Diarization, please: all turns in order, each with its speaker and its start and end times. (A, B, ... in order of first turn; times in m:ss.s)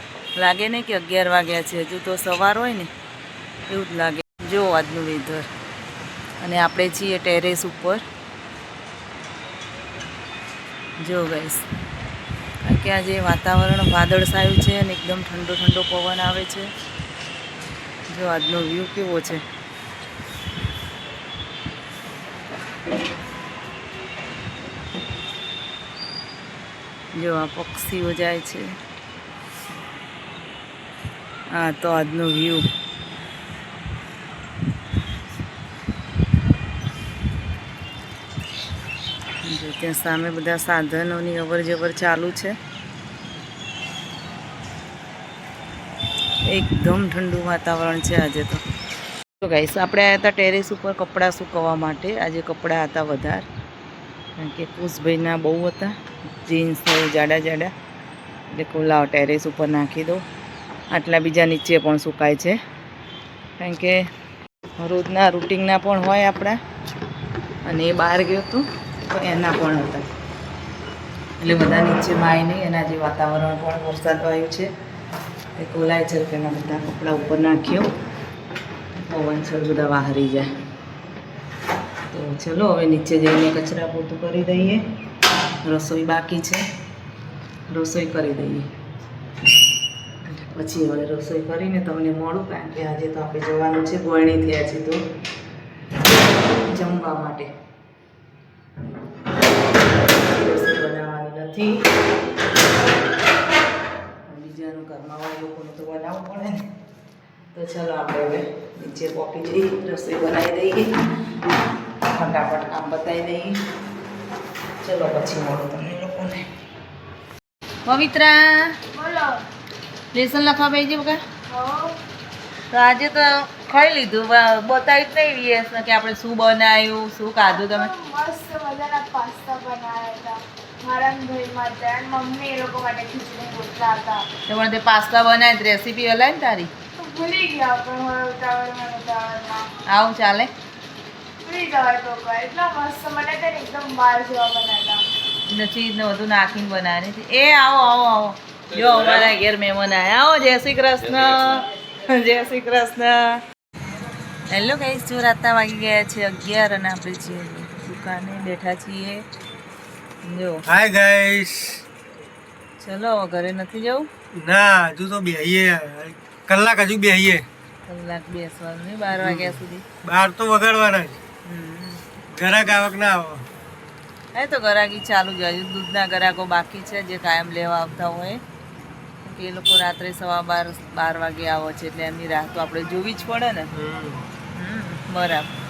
0:00.4-0:02.9 A
0:03.7-0:05.5 A
0:06.4-0:08.0 A
0:11.0-0:11.6 A
0:12.6-0:16.7 A
0:18.1-0:19.4 A
0:27.1-0:28.8 A
0:31.5-0:32.7 A
0:39.4-0:42.6 A
0:46.4-0:48.6 A
0:49.4-0:53.5 A
0:54.4-0:57.7 A
0:58.5-1:00.2 A
1:00.9-1:02.6 A
1:03.6-1:04.1 A
1:04.8-1:06.6 A
1:07.6-1:10.1 A
1:11.4-1:14.7 A
1:15.6-1:17.9 A
1:19.0-1:20.5 A
1:22.1-1:24.8 A
1:25.6-1:26.6 A
1:27.7-1:28.7 A
1:30.2-1:35.0 A
1:36.6-1:37.5 A
1:40.2-1:41.8 A
1:44.2-1:46.7 A
1:47.5-1:51.0 A
1:52.1-1:53.6 A
1:54.8-1:56.5 A
1:57.9-1:58.8 A
1:58.9-1:59.4 B
2:00.1-2:01.2 A
2:01.5-2:02.0 B
2:02.7-2:07.9 A
2:07.4-2:14.3 B
2:14.5-2:16.7 A
2:17.0-2:19.7 B
2:19.9-2:20.5 A
2:21.4-2:25.0 B
2:25.5-2:33.4 A
2:34.5-2:39.2 A
2:40.2-2:40.6 A
2:40.7-2:41.8 C
2:42.8-2:44.1 A
2:44.3-2:47.4 C
2:47.8-2:49.8 A
2:49.2-2:51.2 C
2:51.4-2:52.0 A
2:52.2-2:53.5 C
2:54.3-2:58.4 A
2:59.2-3:03.7 A
3:03.8-3:04.2 C
3:04.5-3:05.5 A